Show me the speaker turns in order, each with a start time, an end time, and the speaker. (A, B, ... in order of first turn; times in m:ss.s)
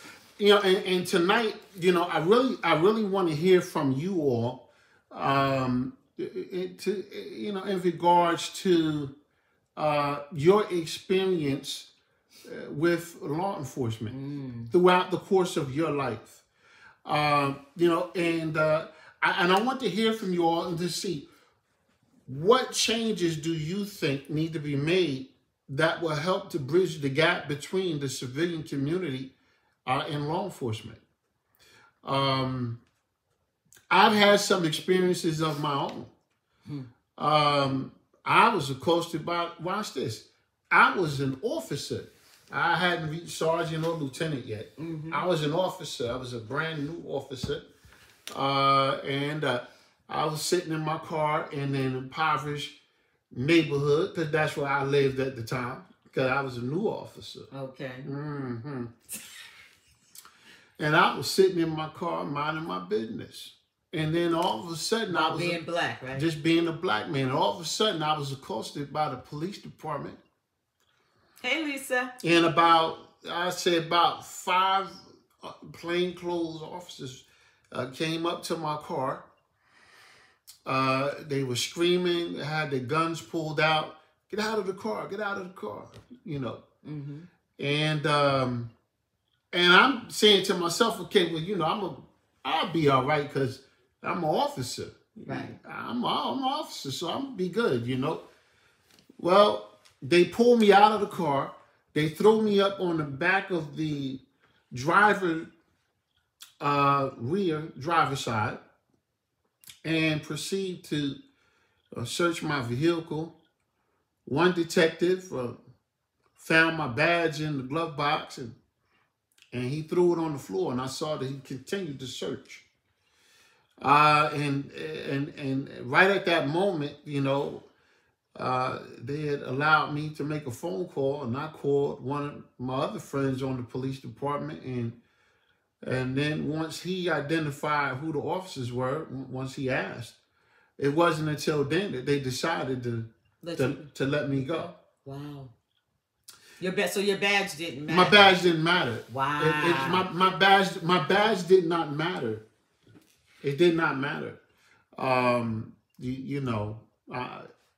0:00.4-0:09.1 A
0:09.8-0:11.9 A
0:12.4-0:14.1 A
0:14.1-0:14.7 B
0:14.7-0:16.4 A
0:17.0-0:21.3 A
0:22.3-0:29.3 A
0:29.8-0:31.0 A
0:32.0-0:32.8 A
0:33.9-0:36.1 A
0:37.2-0:47.6 A
0:44.8-0:45.2 B
0:48.3-0:52.8 A
0:53.3-0:57.5 A
0:57.5-0:58.1 B
0:58.0-0:58.9 A
1:00.8-1:05.6 A
1:05.1-1:06.2 B
1:06.1-1:10.2 A
1:11.4-1:12.1 B
1:12.2-1:19.2 A
1:20.6-1:26.6 A
1:26.8-1:27.3 B
1:27.6-1:28.7 A
1:29.5-1:38.2 A
1:35.3-1:35.6 B
1:39.2-1:45.5 A
1:46.6-1:48.6 A
1:49.8-1:51.2 A
1:51.9-1:53.4 A
1:54.2-1:55.6 A
1:56.4-1:58.6 A
1:59.5-2:02.6 A
2:03.8-2:07.6 A
2:08.4-2:15.0 A
2:15.8-2:20.2 A
2:20.8-2:24.7 A
2:23.4-2:25.5 B
2:26.6-2:28.4 B
2:27.9-2:32.4 A
2:29.1-2:30.0 B
2:33.4-2:34.4 A
2:35.0-2:37.5 A